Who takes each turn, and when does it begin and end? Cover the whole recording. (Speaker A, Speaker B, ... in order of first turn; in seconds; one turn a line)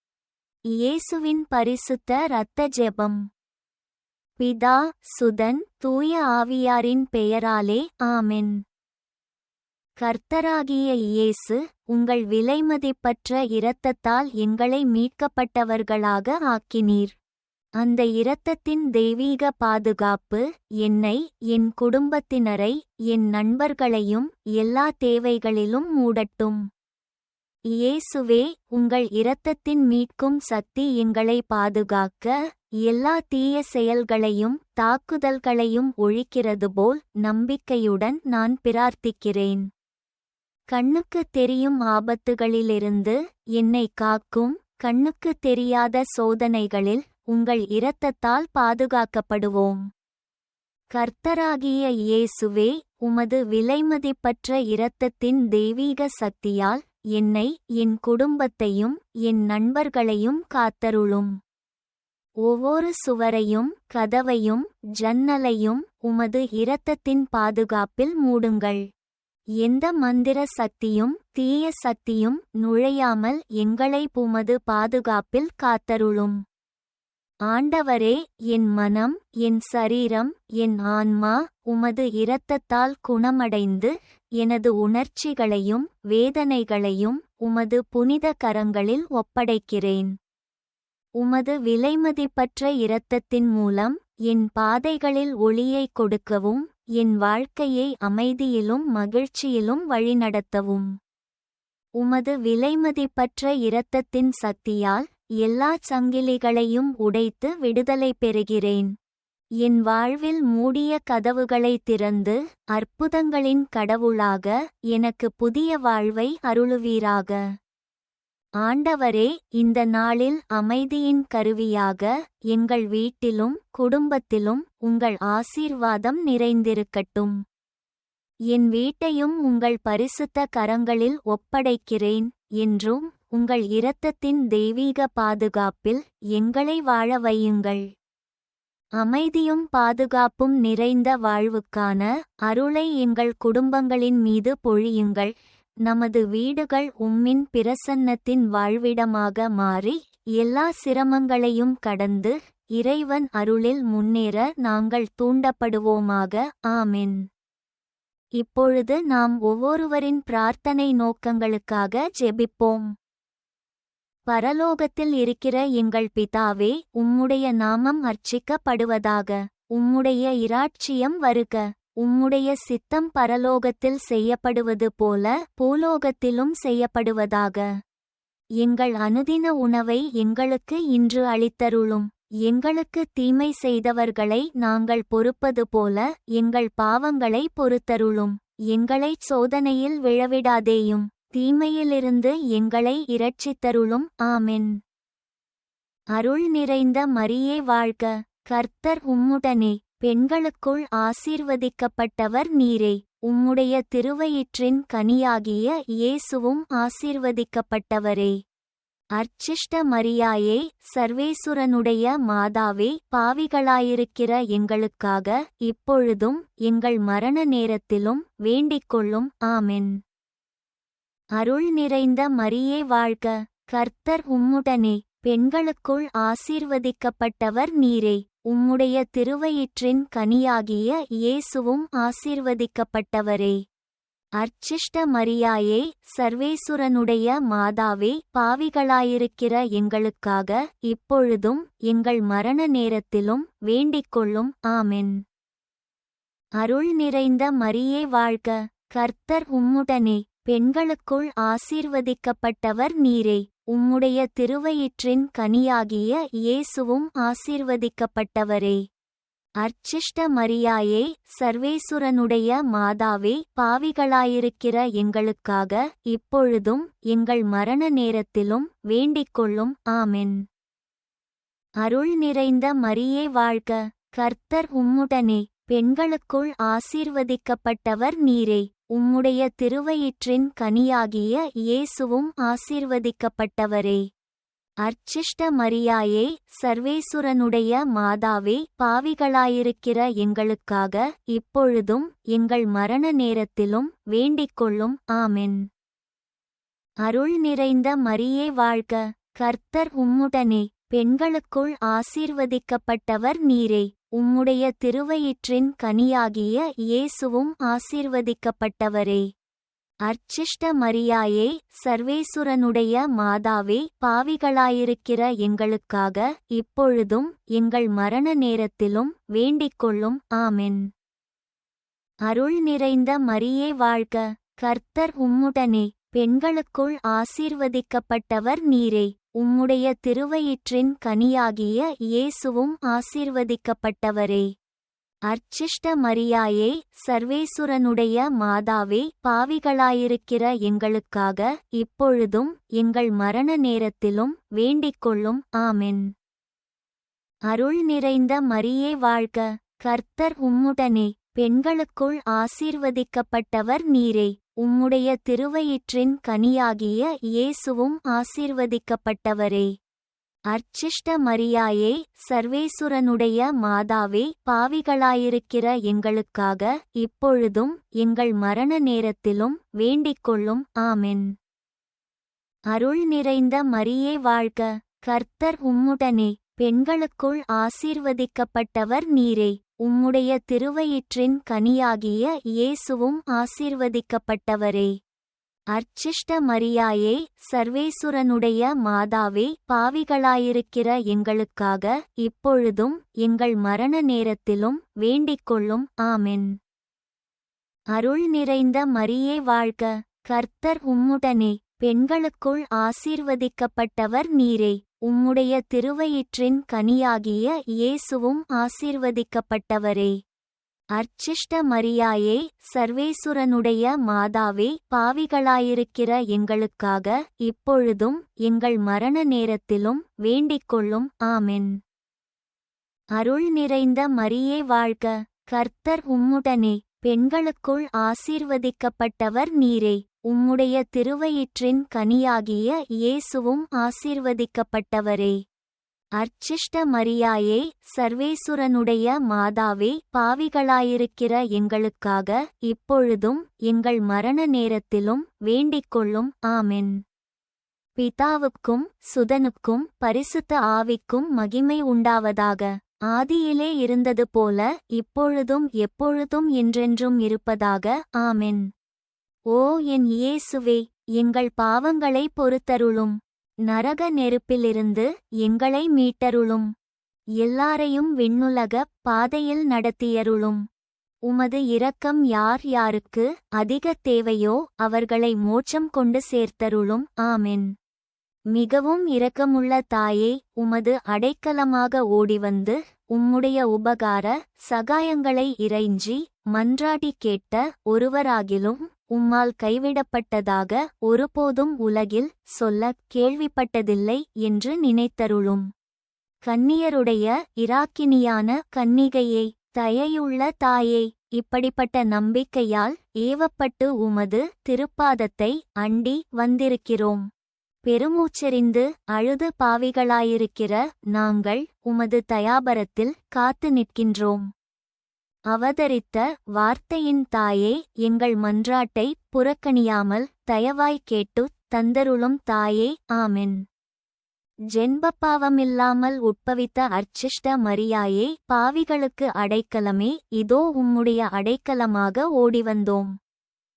Speaker A: 0.7-3.2
Speaker A: 4.4-8.6
Speaker A: 10.0-17.1
Speaker A: 17.8-26.6
Speaker A: 27.7-39.6
Speaker A: 40.7-49.8
Speaker A: 50.9-61.3
Speaker A: 62.4-68.8
Speaker A: 69.6-76.4
Speaker A: 77.5-90.1
Speaker A: 91.2-100.9
Speaker A: 102.0-108.9
Speaker A: 109.6-117.4
Speaker A: 118.6-127.4
Speaker A: 128.5-137.9
Speaker A: 139.0-145.3
Speaker A: 145.8-157.2
Speaker A: 158.4-162.9
Speaker A: 164.3-177.7
Speaker A: 178.6-194.8
Speaker A: 196.1-208.3
Speaker A: 209.2-220.0
Speaker A: 221.4-233.6
Speaker A: 234.4-245.2
Speaker A: 246.6-258.8
Speaker A: 259.6-270.4
Speaker A: 271.8-284.0
Speaker A: 284.8-295.6
Speaker A: 297.0-309.2
Speaker A: 310.1-320.8
Speaker A: 322.3-334.5
Speaker A: 335.3-346.1
Speaker A: 347.5-359.7
Speaker A: 360.5-371.3
Speaker A: 372.7-384.9
Speaker A: 385.7-396.5
Speaker A: 397.9-410.1
Speaker A: 410.9-421.7
Speaker A: 423.2-435.4
Speaker A: 436.2-447.0
Speaker A: 448.0-458.6
Speaker A: 459.5-466.7
Speaker A: 467.4-470.6
Speaker A: 471.3-477.7
Speaker A: 478.5-495.6
Speaker A: 496.4-507.2
Speaker A: 507.8-514.5
Speaker A: 515.5-523.6
Speaker A: 524.7-533.1